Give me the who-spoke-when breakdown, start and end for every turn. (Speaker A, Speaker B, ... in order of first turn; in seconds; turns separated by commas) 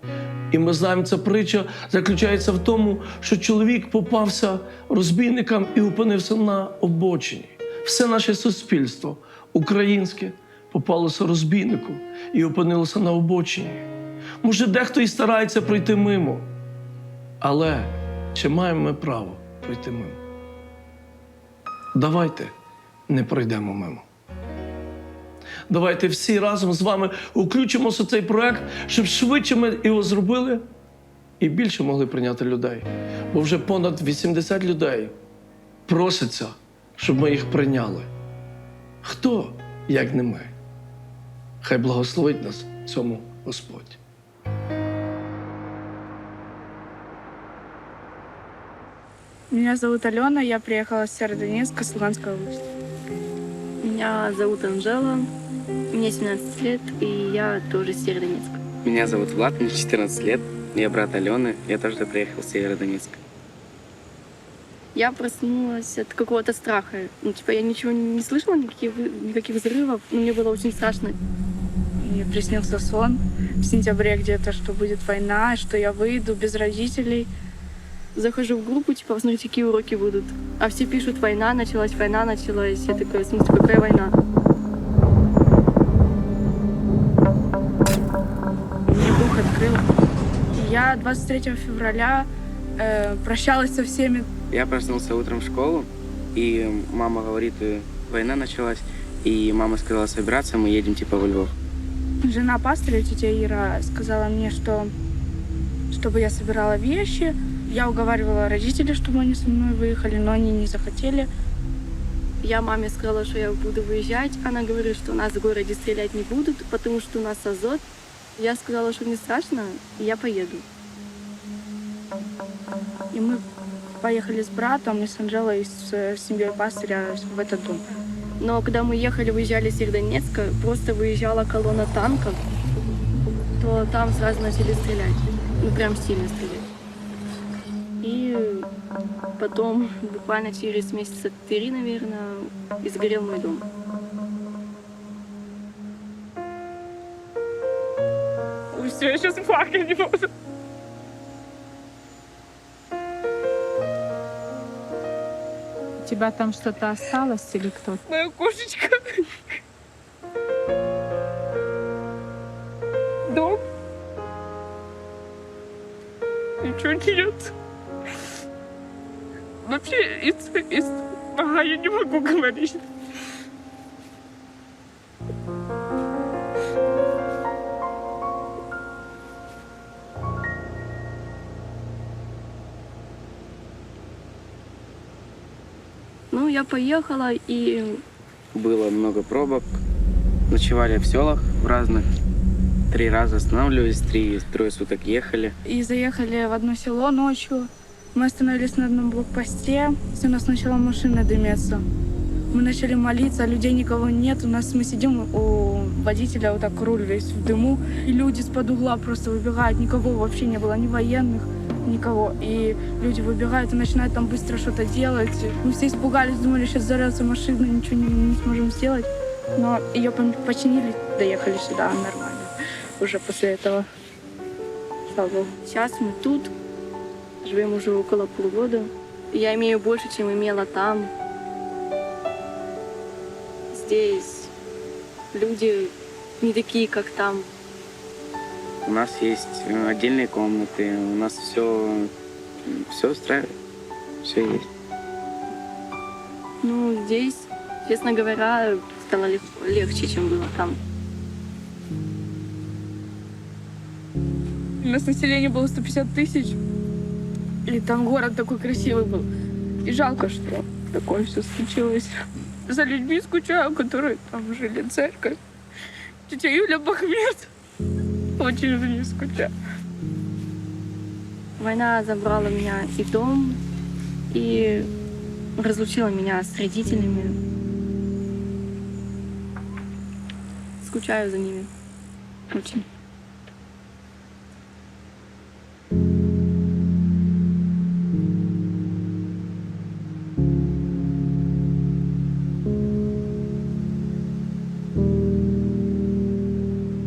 Speaker A: 0.5-13.9, Speaker A: 14.4-16.5, Speaker A: 17.4-20.2, Speaker A: 21.9-22.5, Speaker A: 23.1-24.1, Speaker A: 25.7-30.6, Speaker A: 31.4-35.1, Speaker A: 35.9-38.1, Speaker A: 39.0-40.5, Speaker A: 41.6-44.0, Speaker B: 49.5-52.6, Speaker C: 53.8-55.3, Speaker C: 55.9-58.6, Speaker D: 58.8-63.2, Speaker C: 65.0-71.2, Speaker B: 72.0-77.3, Speaker C: 78.2-84.1, Speaker B: 88.9-89.9, Speaker B: 90.6-92.3, Speaker B: 92.8-94.3, Speaker D: 94.5-101.5, Speaker B: 102.2-104.9, Speaker B: 105.9-111.3, Speaker C: 112.4-117.8, Speaker C: 118.4-120.6, Speaker B: 123.1-123.4, Speaker B: 124.0-127.8, Speaker C: 128.4-132.4, Speaker C: 133.6-136.7, Speaker C: 138.0-138.7, Speaker C: 139.4-143.7, Speaker B: 148.7-150.3, Speaker E: 156.0-158.0, Speaker C: 158.1-159.3, Speaker C: 163.3-163.6, Speaker C: 166.6-167.5, Speaker C: 169.6-172.8, Speaker C: 186.3-188.0, Speaker D: 188.5-189.8, Speaker D: 190.5-192.1, Speaker D: 192.9-195.6, Speaker B: 195.7-201.8, Speaker B: 202.5-223.9, Speaker B: 225.1-225.5, Speaker C: 225.7-226.5, Speaker C: 227.4-231.1, Speaker C: 233.7-234.5, Speaker C: 235.3-237.5, Speaker D: 238.8-242.1, Speaker D: 242.7-243.6, Speaker D: 244.2-244.7, Speaker C: 246.6-250.8, Speaker B: 254.8-256.6, Speaker B: 257.7-259.3, Speaker B: 259.9-262.1, Speaker B: 262.7-265.4, Speaker B: 266.3-267.5, Speaker B: 268.4-269.5, Speaker C: 271.6-273.6, Speaker C: 274.3-274.9, Speaker C: 275.6-277.4, Speaker C: 280.8-281.7, Speaker C: 282.5-282.9